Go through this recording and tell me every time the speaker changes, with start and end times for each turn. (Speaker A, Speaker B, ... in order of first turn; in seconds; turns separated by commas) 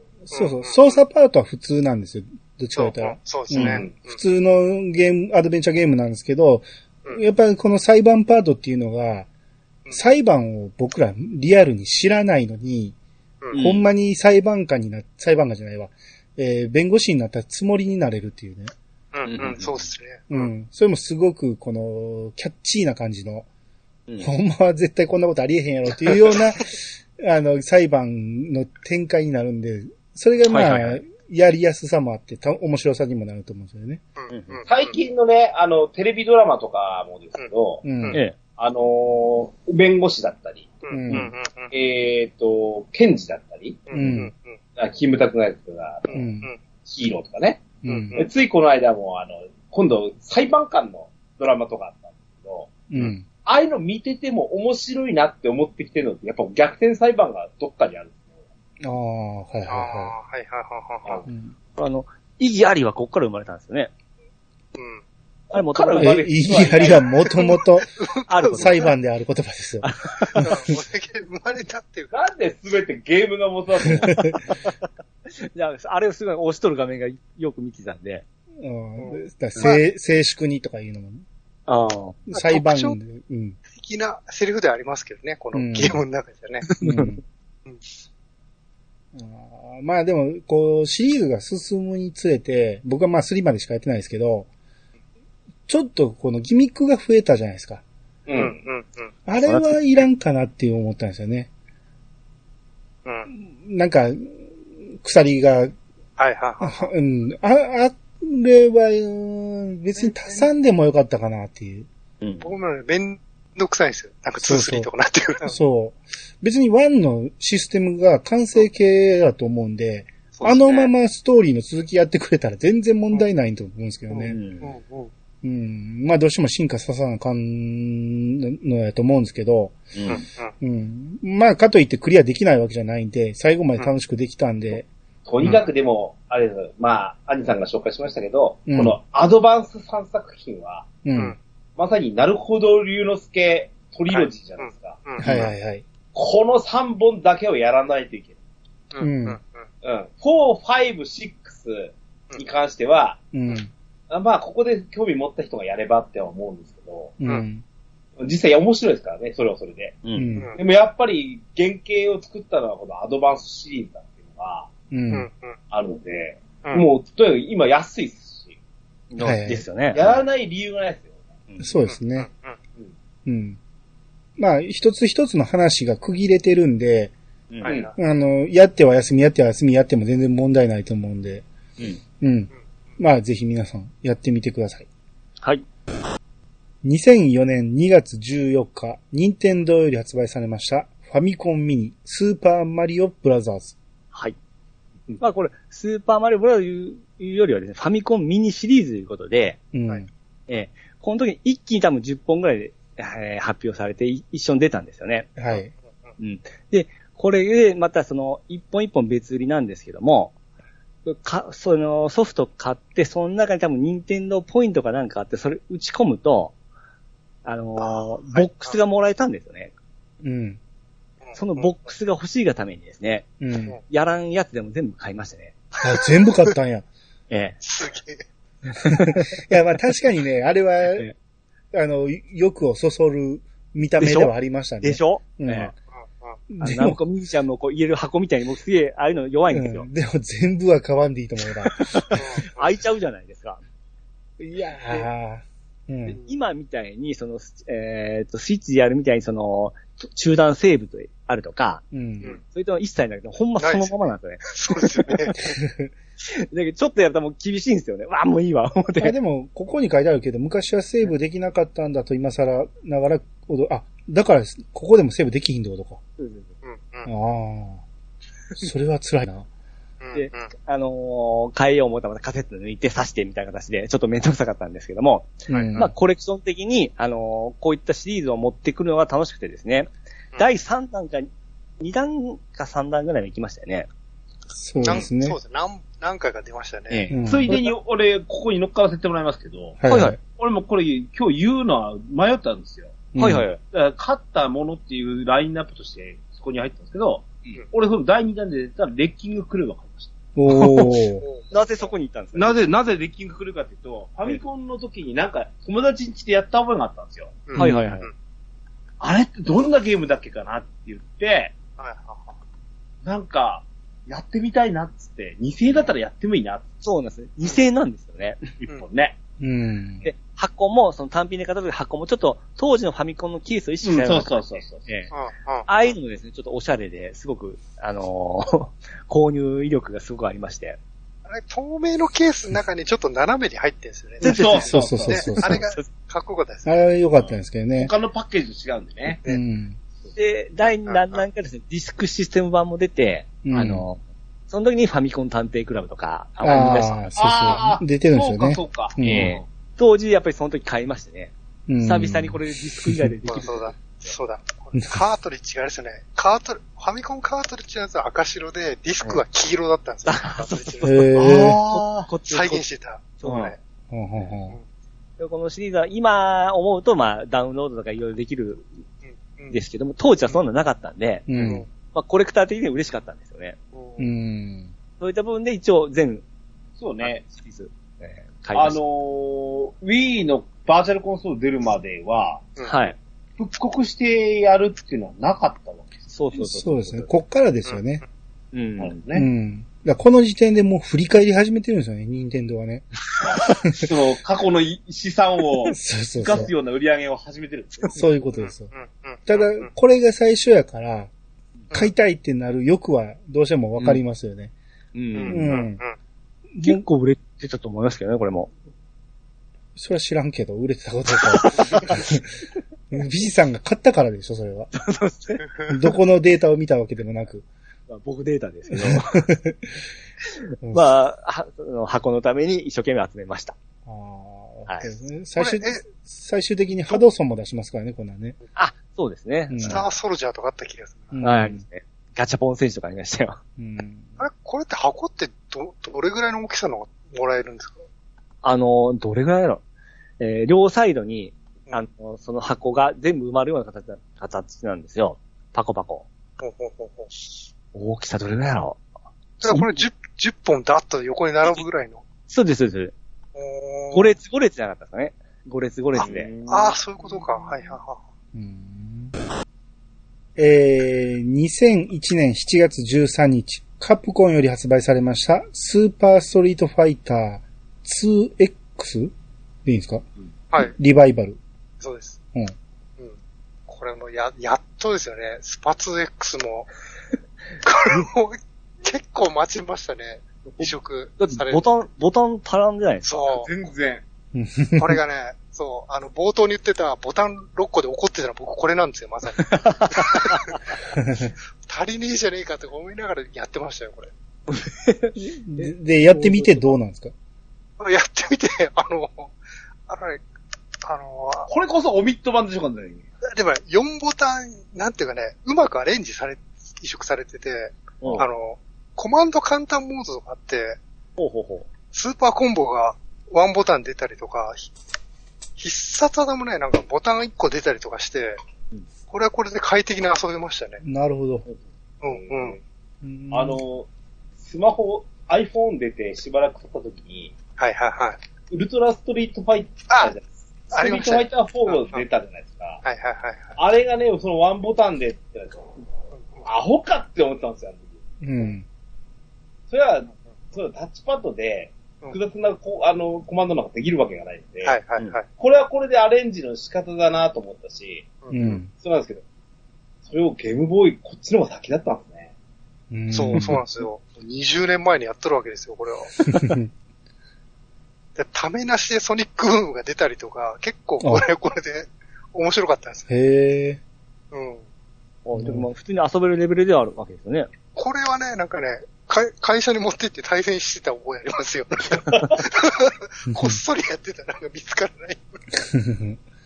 Speaker A: 0.3-9.3, Speaker B: 0.3-1.0, Speaker B: 2.8-4.2, Speaker C: 3.6-3.9, Speaker A: 9.9-12.9, Speaker D: 13.5-13.8, Speaker A: 13.6-18.7, Speaker B: 19.1-20.5, Speaker D: 19.2-19.9, Speaker A: 20.3-23.5, Speaker A: 24.2-34.0, Speaker D: 30.5-31.0, Speaker B: 34.2-34.6, Speaker D: 34.3-34.6, Speaker C: 34.6-37.8, Speaker A: 37.8-38.2, Speaker C: 38.6-43.8, Speaker B: 40.9-41.7, Speaker A: 40.9-41.3, Speaker B: 43.9-44.5, Speaker A: 43.9-44.3, Speaker C: 44.8-46.2, Speaker A: 46.1-46.5, Speaker B: 46.1-46.5, Speaker C: 46.8-58.3, Speaker A: 47.8-48.2, Speaker B: 47.9-48.3, Speaker A: 52.9-53.2, Speaker A: 58.8-60.1, Speaker B: 59.7-61.2, Speaker A: 61.3-61.5, Speaker D: 61.8-63.9, Speaker B: 64.8-65.0, Speaker C: 65.5-67.2, Speaker D: 65.5-66.7, Speaker A: 66.0-67.9, Speaker B: 68.0-68.7, Speaker D: 68.3-68.9, Speaker A: 68.4-70.7, Speaker D: 69.8-70.5, Speaker B: 70.4-72.1, Speaker C: 72.1-74.3, Speaker A: 74.0-74.4, Speaker D: 74.5-74.7, Speaker D: 75.4-78.2, Speaker A: 78.6-81.2, Speaker B: 79.0-79.8, Speaker D: 81.7-82.2, Speaker A: 82.3-83.6, Speaker B: 82.3-83.0, Speaker B: 83.7-86.7, Speaker A: 85.5-86.0, Speaker D: 86.7-87.1, Speaker A: 86.8-87.2, Speaker A: 89.1-94.5, Speaker A: 95.7-97.8, Speaker C: 98.3-98.5, Speaker B: 98.3-99.1, Speaker A: 99.2-101.5, Speaker D: 99.4-99.8, Speaker A: 103.3-105.7, Speaker B: 106.2-106.9, Speaker A: 106.6-111.9, Speaker B: 110.0-110.5, Speaker D: 112.2-112.5, Speaker B: 112.4-115.6, Speaker A: 114.4-114.9, Speaker A: 115.4-124.4, Speaker B: 120.3-120.9, Speaker B: 124.1-125.1, Speaker D: 124.3-124.7, Speaker A: 125.4-129.8, Speaker D: 129.9-130.2, Speaker B: 130.1-130.5, Speaker A: 130.6-134.9, Speaker C: 135.2-140.9, Speaker A: 138.7-139.0, Speaker A: 141.0-141.3, Speaker C: 141.8-145.4, Speaker B: 144.1-145.3, Speaker A: 145.2-145.8, Speaker C: 146.1-148.3, Speaker B: 148.9-149.6, Speaker A: 149.0-149.4, Speaker C: 149.8-153.2, Speaker A: 153.3-153.7, Speaker C: 154.1-157.2, Speaker A: 157.2-157.6, Speaker C: 158.2-160.0, Speaker D: 160.0-160.3, Speaker A: 160.1-160.5, Speaker C: 160.6-164.7, Speaker A: 164.9-165.3, Speaker B: 165.1-165.5, Speaker C: 165.7-168.6, Speaker D: 169.1-170.2, Speaker A: 169.2-169.6, Speaker C: 169.9-171.1, Speaker A: 171.6-172.3, Speaker B: 172.2-172.5, Speaker A: 173.2-173.6, Speaker A: 174.4-177.1, Speaker B: 177.6-177.9, Speaker C: 177.6-177.9, Speaker A: 178.0-181.4, Speaker A: 182.2-184.8, Speaker A: 186.8-193.8, Speaker D: 195.2-199.6, Speaker A: 199.7-200.1, Speaker D: 200.5-205.3, Speaker A: 205.3-205.7, Speaker D: 206.2-210.3, Speaker D: 211.1-216.5, Speaker D: 217.4-219.7, Speaker B: 217.8-218.7, Speaker A: 220.2-220.6, Speaker B: 221.2-221.7, Speaker D: 221.3-223.3, Speaker A: 223.4-223.8, Speaker D: 223.9-225.5, Speaker B: 225.8-226.5, Speaker A: 225.8-226.8, Speaker D: 227.3-227.6, Speaker B: 227.6-228.2, Speaker A: 228.8-231.1, Speaker D: 228.8-229.2, Speaker A: 231.7-235.7, Speaker D: 234.0-235.7, Speaker A: 236.5-237.0, Speaker D: 236.6-239.9, Speaker A: 239.5-242.2, Speaker D: 241.7-243.6, Speaker B: 242.2-242.7, Speaker A: 244.4-246.2, Speaker D: 246.1-251.8, Speaker A: 251.9-252.4, Speaker D: 252.4-255.3, Speaker B: 253.6-255.6, Speaker A: 255.5-255.9, Speaker D: 256.2-259.1, Speaker A: 259.0-266.0, Speaker D: 266.2-266.5, Speaker B: 266.6-267.1, Speaker A: 267.0-267.8, Speaker A: 268.6-269.5, Speaker B: 270.0-270.5, Speaker D: 270.1-283.9, Speaker A: 275.5-275.9, Speaker B: 275.5-275.8, Speaker A: 284.5-285.4, Speaker B: 284.8-287.1, Speaker D: 286.9-287.5, Speaker A: 287.1-287.6, Speaker C: 287.2-289.8, Speaker A: 289.8-290.2, Speaker D: 289.9-290.2, Speaker C: 290.4-293.0, Speaker A: 293.1-293.5, Speaker D: 293.2-293.6, Speaker C: 293.6-300.1, Speaker A: 300.4-301.2, Speaker D: 300.5-301.0, Speaker B: 301.2-301.9, Speaker D: 301.5-302.6, Speaker C: 302.3-307.4, Speaker B: 307.5-308.1, Speaker D: 307.6-308.1, Speaker C: 309.0-311.5, Speaker B: 311.8-312.3, Speaker C: 313.0-316.6, Speaker D: 316.8-318.4, Speaker C: 318.6-319.2, Speaker A: 319.4-320.1, Speaker D: 320.0-325.1, Speaker C: 323.8-324.9, Speaker B: 325.1-325.9, Speaker D: 325.7-330.8, Speaker B: 331.3-336.8, Speaker C: 334.2-335.3, Speaker D: 334.2-334.7, Speaker A: 334.5-335.6, Speaker D: 335.4-335.8, Speaker A: 336.6-337.9, Speaker C: 337.8-339.2, Speaker A: 339.1-339.8, Speaker D: 340.1-347.0, Speaker B: 340.9-341.2, Speaker A: 343.4-343.8, Speaker A: 346.4-349.4, Speaker C: 347.1-349.4, Speaker D: 349.1-354.1, Speaker A: 351.7-353.1, Speaker B: 353.3-360.9, Speaker D: 360.0-362.6, Speaker A: 360.8-361.6, Speaker C: 361.2-362.1, Speaker B: 362.3-363.6, Speaker D: 363.2-363.5, Speaker C: 363.2-363.5, Speaker A: 363.9-364.6, Speaker D: 365.2-368.6, Speaker B: 369.1-369.6, Speaker D: 369.5-373.6, Speaker A: 371.3-371.6, Speaker B: 373.7-374.1, Speaker A: 374.0-374.7, Speaker D: 375.0-376.2, Speaker C: 376.8-377.2, Speaker D: 377.0-378.8, Speaker C: 378.5-382.5, Speaker D: 382.6-382.9, Speaker C: 383.4-386.0, Speaker D: 386.1-387.1, Speaker A: 386.3-388.0, Speaker D: 388.5-388.9, Speaker C: 388.8-389.3, Speaker A: 389.1-392.9, Speaker C: 393.2-398.0, Speaker A: 393.5-393.9, Speaker A: 395.7-396.5, Speaker A: 397.9-398.7, Speaker B: 398.3-399.6, Speaker A: 399.2-401.1, Speaker A: 401.7-404.5, Speaker D: 404.9-405.5, Speaker B: 405.1-405.9, Speaker A: 405.3-405.8, Speaker A: 406.5-406.8, Speaker D: 406.6-408.5, Speaker A: 409.8-412.2, Speaker D: 411.3-412.0, Speaker A: 412.9-414.7, Speaker D: 414.8-415.4, Speaker A: 415.7-417.5, Speaker D: 417.9-419.2, Speaker A: 418.7-419.7, Speaker A: 420.6-420.9, Speaker D: 420.7-423.6, Speaker A: 423.9-428.4, Speaker B: 424.9-425.8, Speaker D: 428.5-429.8, Speaker A: 429.5-429.8, Speaker B: 429.6-431.2, Speaker A: 431.1-431.6, Speaker D: 431.2-433.4, Speaker A: 433.6-434.2, Speaker B: 434.2-437.8, Speaker D: 438.4-439.6, Speaker D: 440.2-446.1, Speaker B: 446.4-447.1, Speaker D: 447.7-448.8, Speaker B: 449.4-452.0, Speaker D: 449.5-449.7, Speaker D: 452.3-452.9, Speaker B: 453.3-454.1, Speaker D: 453.9-456.3, Speaker C: 456.0-456.8, Speaker B: 456.5-458.0, Speaker A: 458.3-459.1, Speaker A: 460.4-469.1, Speaker A: 469.6-470.0, Speaker A: 470.6-471.4, Speaker B: 471.8-472.2, Speaker B: 473.7-476.7, Speaker B: 477.6-481.6, Speaker D: 480.5-483.1, Speaker B: 483.0-483.5, Speaker C: 483.2-484.0, Speaker A: 484.3-485.0, Speaker B: 484.8-490.6, Speaker D: 489.4-490.6, Speaker A: 490.9-491.3, Speaker B: 491.6-494.1, Speaker D: 494.5-496.7, Speaker A: 495.1-497.1, Speaker B: 497.8-499.3, Speaker B: 499.9-500.2, Speaker B: 500.8-501.5, Speaker C: 501.5-503.1, Speaker B: 503.3-510.8, Speaker D: 511.2-511.6, Speaker B: 511.9-514.7, Speaker B: 515.6-518.4, Speaker B: 519.1-520.8, Speaker A: 520.8-521.5, Speaker B: 522.0-522.5, Speaker C: 522.1-522.6, Speaker A: 523.0-523.6, Speaker C: 523.3-523.9, Speaker C: 524.4-527.3, Speaker B: 527.6-528.2, Speaker C: 528.5-532.8, Speaker B: 530.7-532.0, Speaker B: 532.8-533.6, Speaker C: 533.6-535.7, Speaker C: 536.4-537.9, Speaker A: 538.2-538.6, Speaker C: 539.7-544.8, Speaker B: 544.6-545.2, Speaker C: 545.4-548.1, Speaker B: 548.2-548.6, Speaker A: 548.3-548.7, Speaker C: 548.7-549.2, Speaker C: 550.0-552.3, Speaker A: 552.9-553.6, Speaker B: 553.1-556.4, Speaker A: 556.3-556.7, Speaker B: 558.1-563.1, Speaker A: 561.0-561.2, Speaker A: 563.1-563.8, Speaker B: 564.3-564.6, Speaker D: 565.2-567.5, Speaker A: 565.4-565.7, Speaker B: 567.7-575.2, Speaker A: 573.3-573.6, Speaker A: 575.5-576.2